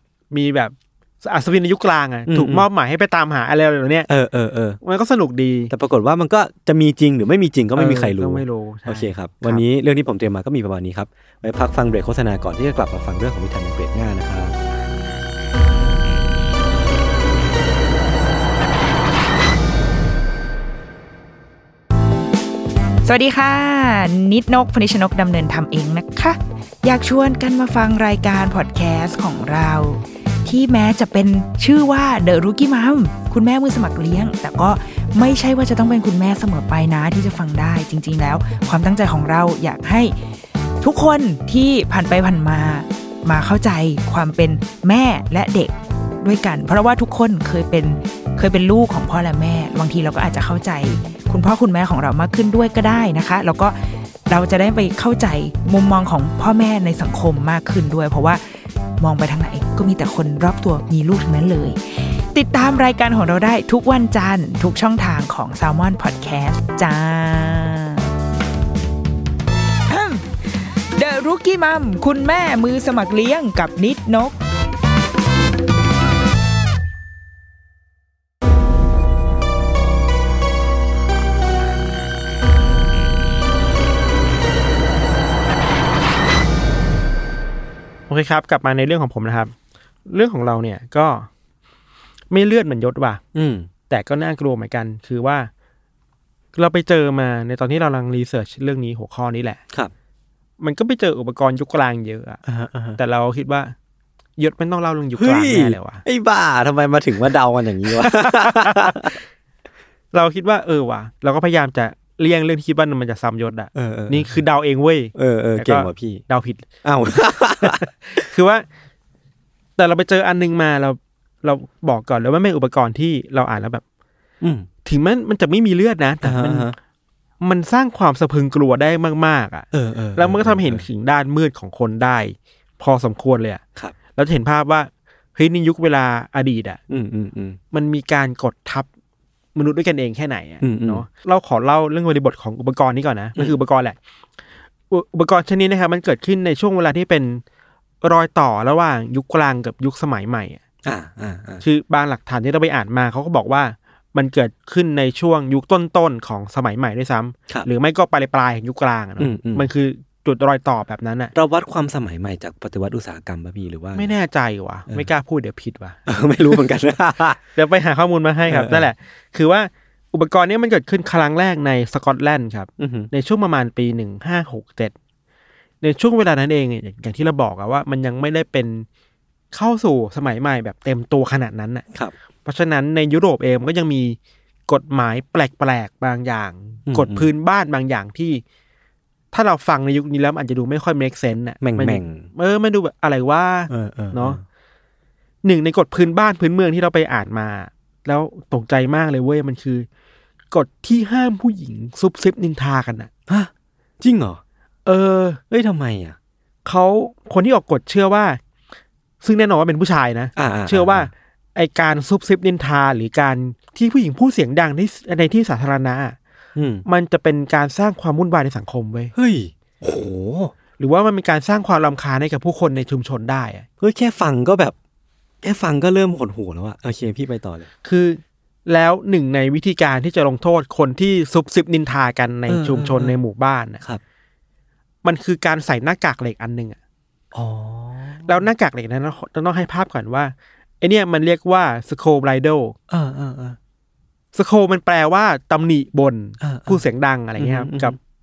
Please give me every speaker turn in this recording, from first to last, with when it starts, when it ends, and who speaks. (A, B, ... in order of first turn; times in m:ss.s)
0:00.3-0:04.1 A
0:02.3-0:02.7 B
0:04.1-0:04.8 B
0:04.8-0:05.7 A
0:05.7-0:14.6 B
0:07.8-0:09.6 A
0:23.0-0:40.2 C
0:40.8-0:58.4 C
0:59.0-1:08.1 C
1:09.9-1:14.4 C
1:28.1-1:29.5 A
1:30.1-1:31.3 A
1:32.3-1:33.2 A
1:33.3-1:33.7 B
1:33.9-1:35.5 A
1:36.6-1:39.6 A
1:40.6-1:42.4 A
1:42.4-1:43.0 B
1:43.0-1:43.8 A
1:44.4-1:46.0 A
1:45.2-1:49.2 B
1:47.9-1:49.2 A
1:50.1-1:56.8 A
1:53.8-1:54.4 B
1:55.2-1:56.2 B
1:56.8-1:58.3 B
1:57.6-1:58.6 A
1:59.8-2:03.8 A
2:04.4-2:04.7 B
2:04.8-2:06.8 A
2:06.2-2:06.8 B
2:07.4-2:13.6 A
2:09.7-2:10.9 B
2:14.2-2:16.8 A
2:16.9-2:17.6 B
2:17.7-2:18.9 A
2:19.6-2:24.0 A
2:20.6-2:21.1 B
2:24.9-2:27.4 A
2:28.0-2:30.6 A
2:30.8-2:31.6 B
2:31.6-2:41.3 A
2:39.2-2:39.7 B
2:41.3-2:44.1 B
2:44.0-2:46.6 A
2:46.1-2:47.4 B
2:47.6-2:55.0 A
2:48.5-2:48.9 B
2:52.8-2:53.1 B
2:55.8-2:58.9 A
2:59.5-3:01.8 A
3:02.4-3:04.2 A
3:04.7-3:08.4 A
3:06.9-3:07.3 B
3:09.3-3:14.4 A
3:11.6-3:12.3 B
3:13.7-3:14.4 B
3:15.4-3:19.9 A
3:20.5-3:23.1 A
3:23.3-3:24.4 B
3:24.9-3:25.4 A
3:25.5-3:26.2 B
3:26.6-3:28.4 A
3:29.2-3:36.2 A
3:30.4-3:31.1 B
3:36.6-3:36.9 B
3:36.9-3:39.1 A
3:39.2-3:40.5 B
3:40.8-3:43.7 A
3:43.8-3:44.8 B
3:45.4-3:47.7 B
3:47.8-3:53.8 A
3:52.5-3:53.2 B
3:55.0-3:56.8 A
3:57.3-3:58.5 B
3:58.3-4:02.8 A
4:02.9-4:03.6 B
4:04.3-4:08.0 A
4:06.4-4:06.8 B
4:07.4-4:08.0 B